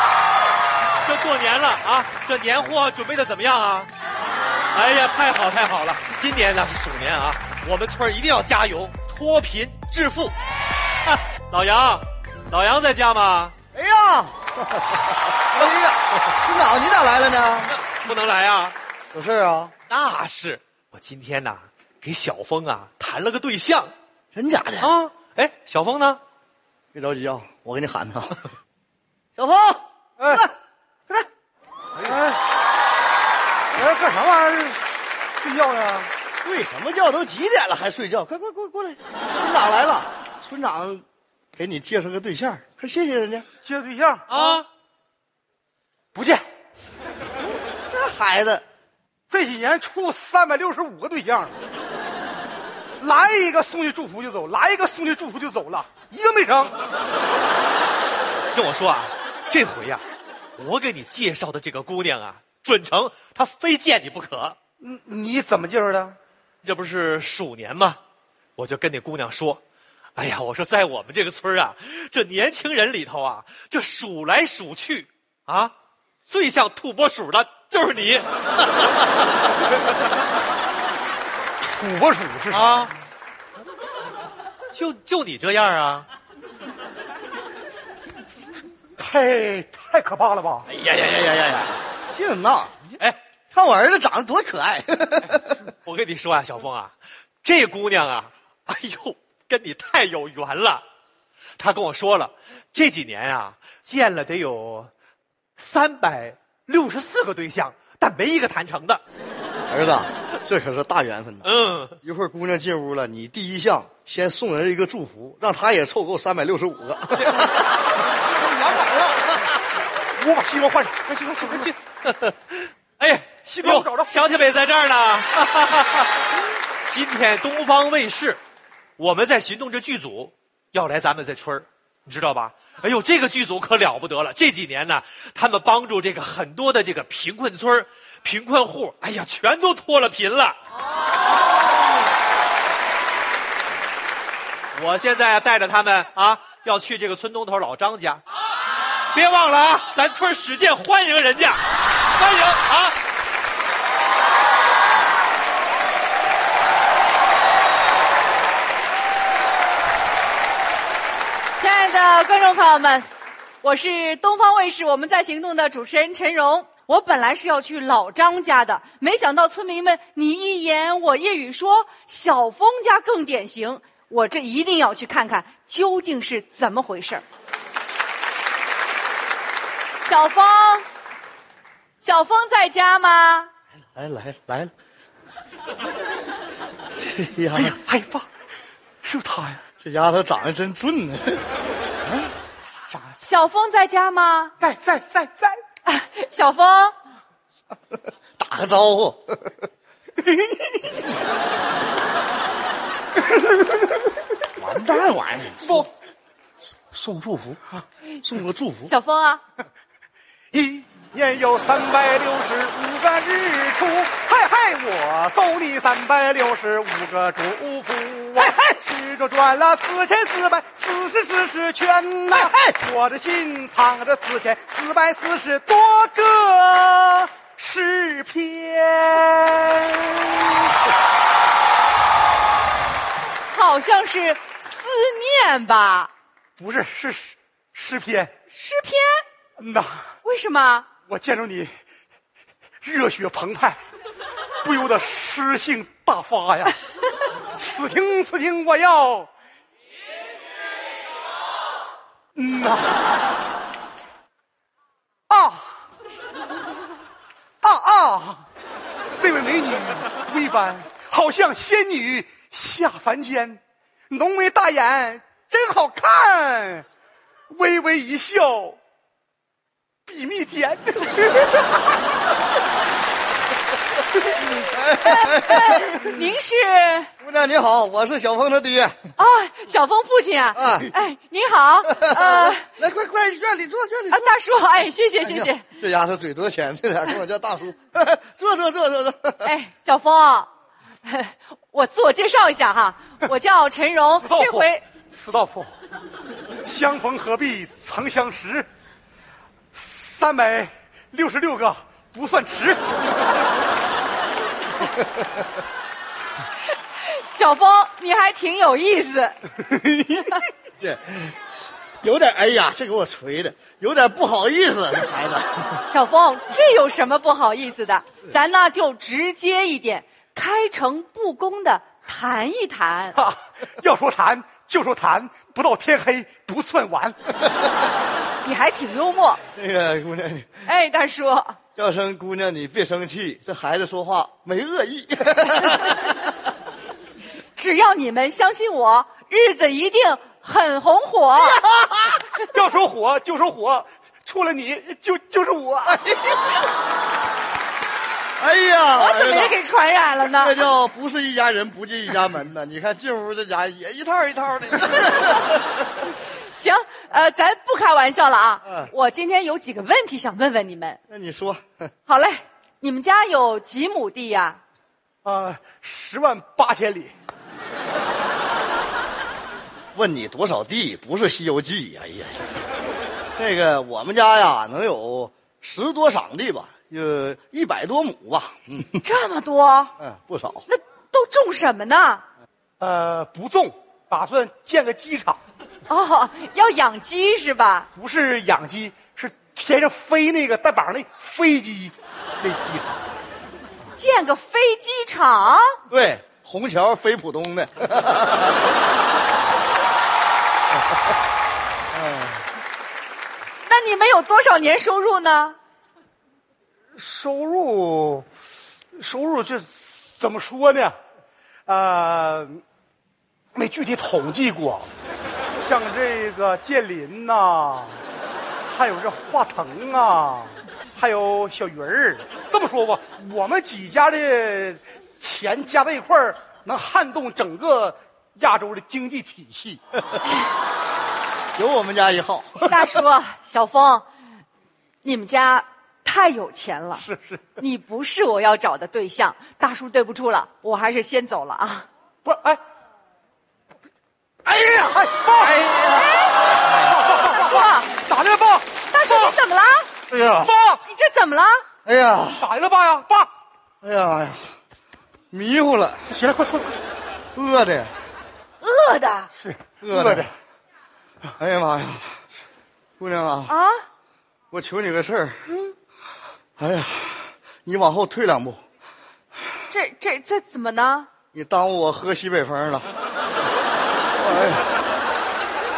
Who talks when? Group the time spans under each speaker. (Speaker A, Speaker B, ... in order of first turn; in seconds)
Speaker A: 1.0-3.9, 4.7-10.3, 11.0-13.5, 17.8-18.7, 19.9-23.9, 24.8-26.2, 44.3-44.7, 58.5-60.0, 60.6-64.6, 66.6-68.0, 68.6-69.6, 70.2-75.7, 76.2-79.5, 82.5-82.9, 84.7-86.1, 90.7-91.8, 95.7-100.8, 101.6-104.9, 105.6-109.0, 111.4-112.0, 117.2-117.5, 121.5-128.4, 129.0-140.6, 144.7-148.2, 149.1-151.6, 152.1-153.0
Speaker B: 13.7-17.7, 19.1-19.7, 24.3-24.9, 26.9-28.5, 29.4-30.5, 36.4-41.0, 41.5-43.5, 47.9-48.6, 92.1-92.8, 93.5-95.6, 109.7-111.5, 112.0-119.6, 183.9-184.7, 187.0-187.8, 189.8-191.4, 192.0-192.3, 198.4-199.6, 204.6-205.9, 206.9-207.6, 208.2-208.9, 274.3-276.1, 277.2-279.0, 280.6-280.9, 281.9-284.3, 285.2-289.5, 310.8-315.8, 329.5-330.6, 331.8-336.1, 348.4-349.6, 350.4-355.5, 361.1-361.9, 369.9-372.5, 373.4-379.0, 380.0-380.6, 395.9-398.6, 401.9-402.4, 431.6-432.8, 445.4-446.0, 450.1-450.5, 451.8-452.4, 453.8-454.5, 455.3-456.1, 457.3-457.9, 459.8-460.3, 461.4-462.2, 463.0-463.5, 464.5-465.4, 466.6-468.6, 471.3-472.9, 474.2-474.6
Speaker C: 30.2-30.5, 32.0-32.4, 33.7-34.8, 35.4-36.1, 43.6-44.6, 46.1-46.4, 49.3-51.6, 53.0-56.7, 64.8-66.2, 81.7-82.7, 89.0-90.7, 120.2-121.7, 123.5-124.1, 187.5-188.2, 189.0-189.6, 192.9-193.2, 194.6-195.6, 200.3-200.8, 205.6-205.9, 210.5-230.7, 236.6-238.3, 239.6-240.1, 241.1-241.7, 242.8-243.8, 244.6-246.8, 247.6-249.3, 252.3-252.9, 255.3-255.7, 257.6-258.4, 259.2-266.9, 267.5-268.8, 270.1-271.8, 294.2-295.8, 296.6-298.7, 299.7-302.9, 309.7-310.3, 323.1-327.2, 342.5-346.2, 365.2-367.1, 382.8-385.4, 387.9-393.0, 406.9-408.2, 408.9-410.9, 411.7-412.6, 413.5-414.9, 415.6-418.0, 418.6-429.8, 437.0-437.4, 442.2-442.6, 444.4-445.7, 446.7-449.3, 450.3-450.8, 452.4-453.3, 456.1-456.7, 459.4-460.3
Speaker D: 161.6-163.1, 163.6-177.2, 180.0-180.8, 182.0-183.5, 193.2-194.5, 195.8-196.9, 208.8-209.4, 233.5-236.1, 238.5-239.2, 240.2-240.9, 275.0-277.1, 279.2-282.6, 284.1-285.6, 289.4-290.5, 291.0-294.8, 307.0-309.5, 315.9-323.2, 328.4-329.4, 330.6-331.6, 337.6-341.6, 348.9-350.7, 356.5-361.0, 362.1-364.6, 379.0-379.9, 380.7-382.2, 385.9-387.9, 393.9-395.6, 403.6-405.6, 432.6-434.0, 435.0-437.1, 437.6-441.9, 445.8-446.4, 447.2-447.9, 448.9-449.9, 450.8-451.6, 458.6-459.3, 463.5-463.8, 469.7-471.1